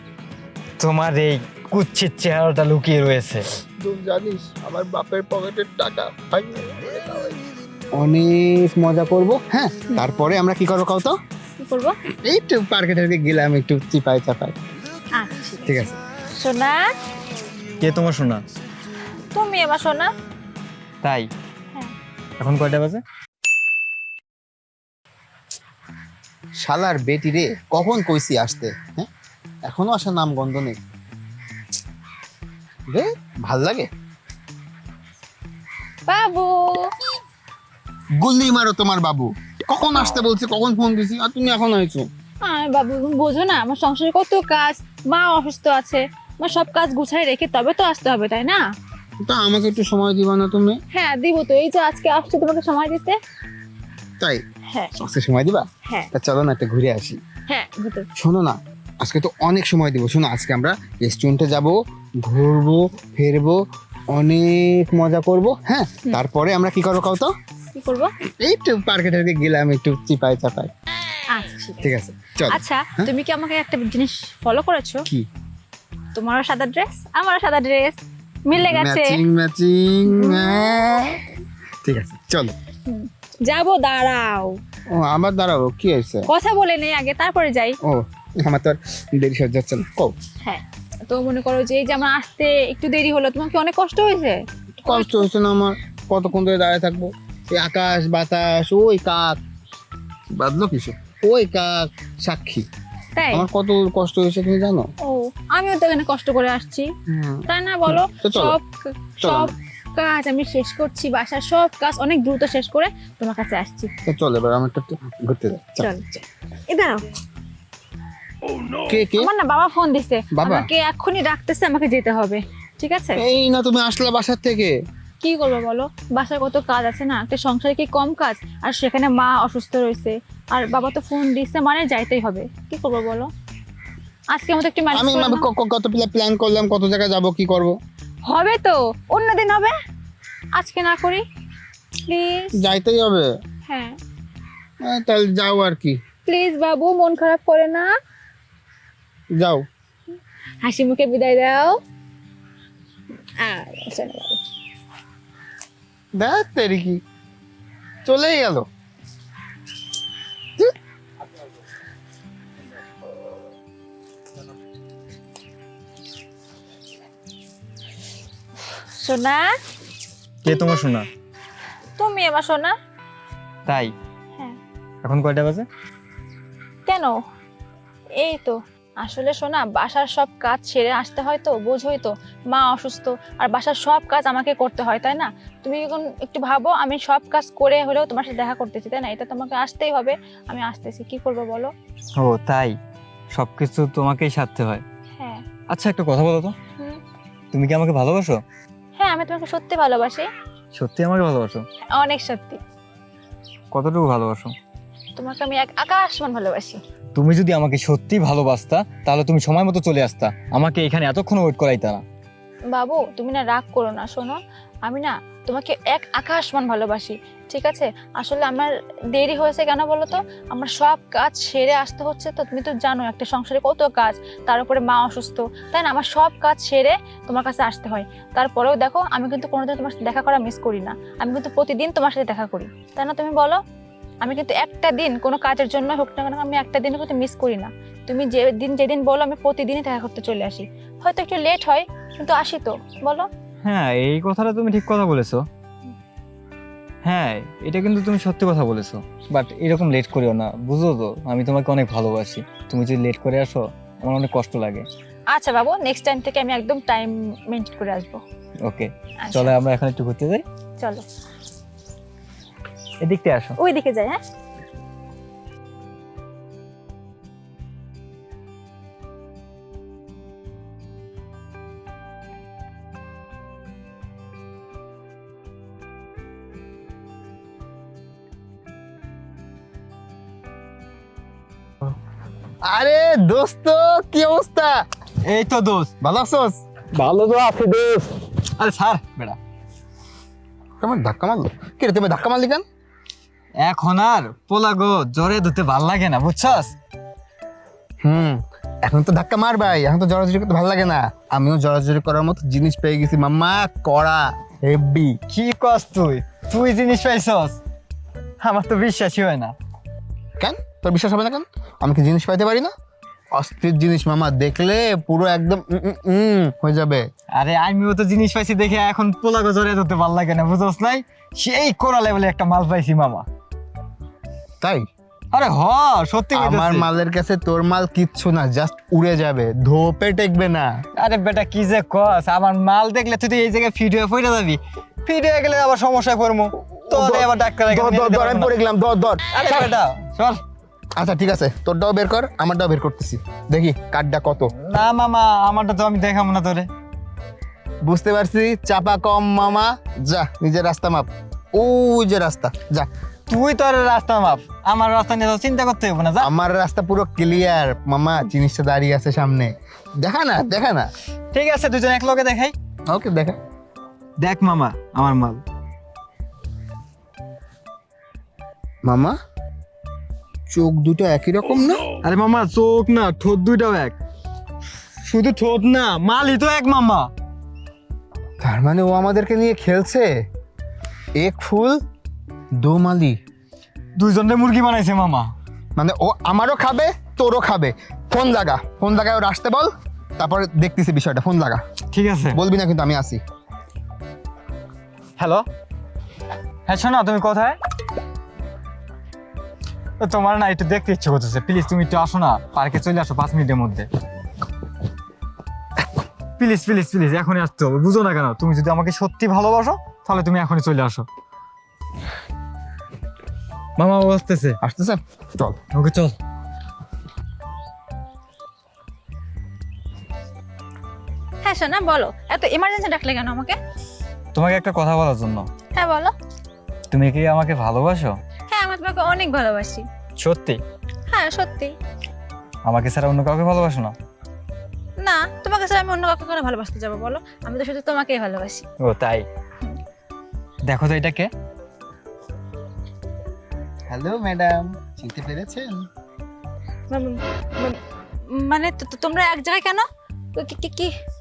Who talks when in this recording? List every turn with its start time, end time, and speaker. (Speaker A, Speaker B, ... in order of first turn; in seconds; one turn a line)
Speaker A: 0.8-3.4
Speaker B: 3.8-7.4
Speaker B: 7.9-11.2
Speaker C: 11.6-12.0
Speaker B: 12.2-14.6
Speaker C: 15.2-16.8
Speaker B: 15.7-15.9
Speaker A: 17.8-18.4
Speaker C: 19.3-20.1
Speaker A: 21.0-21.3
Speaker A: 22.4-23.0
Speaker B: 26.6-29.1
Speaker B: 29.7-30.8
Speaker B: 32.9-33.9
Speaker C: 36.1-36.8
Speaker B: 38.2-42.1
Speaker C: 42.4-48.6
Speaker B: 49.2-50.8
Speaker C: 50.9-53.2
Speaker B: 55.0-57.2
Speaker C: 57.5-58.1
Speaker B: 58.2-67.3
Speaker C: 67.7-68.1
Speaker B: 68.4-70.7
Speaker C: 71.3-71.9
Speaker B: 71.8-73.1
Speaker C: 72.5-75.0
Speaker C: 76.2-79.2
Speaker B: 78.5-81.2
Speaker C: 80.1-81.2
Speaker B: 81.8-82.5
Speaker C: 82.9-84.6
Speaker B: 84.9-86.3
Speaker C: 86.3-87.8
Speaker B: 87.8-90.2
Speaker C: 90.4-95.3
Speaker B: 94.8-99.4
Speaker B: 100.3-102.7
Speaker C: 103.2-103.5
Speaker B: 103.3-104.9
Speaker C: 105.0-106.9
Speaker B: 107.1-108.6
Speaker C: 107.5-108.7
Speaker C: 109.2-113.9
Speaker B: 109.2-109.5
Speaker B: 114.1-115.9
Speaker C: 115.8-117.1
Speaker B: 118.9-119.3
Speaker C: 119.1-123.2
Speaker B: 120.3-120.7
Speaker B: 123.2-124.7
Speaker C: 125.2-133.3
Speaker C: 134.3-135.4
Speaker B: 134.9-137.8
Speaker C: 138.3-139.7
Speaker C: 140.6-141.2
Speaker C: 142.1-142.6
Speaker B: 142.6-143.2
Speaker C: 143.7-144.0
Speaker B: 144.8-146.0
Speaker C: 146.2-147.9
Speaker B: 149.4-149.6
Speaker C: 150.6-151.8
Speaker C: 153.4-154.4
Speaker B: 156.2-157.0
Speaker B: 158.1-158.7
Speaker C: 168.7-169.5
Speaker A: 170.4-171.1
Speaker C: 172.0-172.8
Speaker A: 173.7-173.9
Speaker A: 175.0-175.7
Speaker C: 176.9-177.1
Speaker C: 178.2-191.7
Speaker A: 192.2-192.8
Speaker A: 193.3-194.8
Speaker C: 195.2-195.4
Speaker A: 195.7-196.6
Speaker A: 197.5-198.4
Speaker C: 199.0-200.3
Speaker A: 200.7-201.7
Speaker C: 201.9-202.6
Speaker A: 203.7-204.6
Speaker C: 205.2-206.8
Speaker A: 207.2-212.0
Speaker C: 212.7-233.6
Speaker C: 234.2-243.3
Speaker A: 243.7-245.5
Speaker A: 247.1-254.9
Speaker C: 255.3-258.2
Speaker A: 258.6-260.4
Speaker C: 259.2-259.5
Speaker A: 263.0-263.6
Speaker C: 263.6-264.2
Speaker B: 282.6-284.8
Speaker A: 285.2-285.9
Speaker B: 286.0-286.6
Speaker A: 286.9-289.4
Speaker B: 290.8-292.6
Speaker A: 293.6-296.7
Speaker B: 298.0-305.1
Speaker A: 305.3-307.6
Speaker A: 308.4-309.5
Speaker B: 310.4-312.7
Speaker B: 313.3-317.1
Speaker A: 317.4-323.2
Speaker B: 324.6-324.9
Speaker A: 325.3-326.9
Speaker B: 326.3-330.7
Speaker A: 331.0-338.5
Speaker B: 336.6-339.7
Speaker A: 339.3-340.4
Speaker B: 341.0-344.5
Speaker A: 344.6-346.7
Speaker B: 347.8-352.9
Speaker A: 353.3-356.3
Speaker B: 356.2-360.9
Speaker A: 361.3-362.5
Speaker B: 362.9-363.4
Speaker A: 364.2-365.4
Speaker B: 368.8-369.2
Speaker B: 370.5-371.9
Speaker A: 372.0-373.9
Speaker A: 375.0-377.1
Speaker B: 378.4-380.1
Speaker B: 381.2-381.8
Speaker B: 382.6-383.2
Speaker A: 384.0-385.3
Speaker B: 385.8-391.6
Speaker A: 391.9-392.4
Speaker B: 392.3-393.2
Speaker A: 395.2-395.4
Speaker A: 396.7-397.6
Speaker A: 400.0-403.9
Speaker A: 406.4-411.1
Speaker A: 413.8-414.6
Speaker B: 414.6-415.6
Speaker A: 415.7-416.1
Speaker C: 421.4-423.6
Speaker A: 424.3-425.5
Speaker C: 425.8-426.1
Speaker A: 426.9-428.2
Speaker C: 428.5-429.9
Speaker A: 430.2-430.6
Speaker C: 431.1-431.7
Speaker A: 432.6-433.9
Speaker C: 435.0-438.7
Speaker A: 438.8-439.2
Speaker A: 440.6-441.3
Speaker B: 443.9-445.9
Speaker C: 446.9-450.9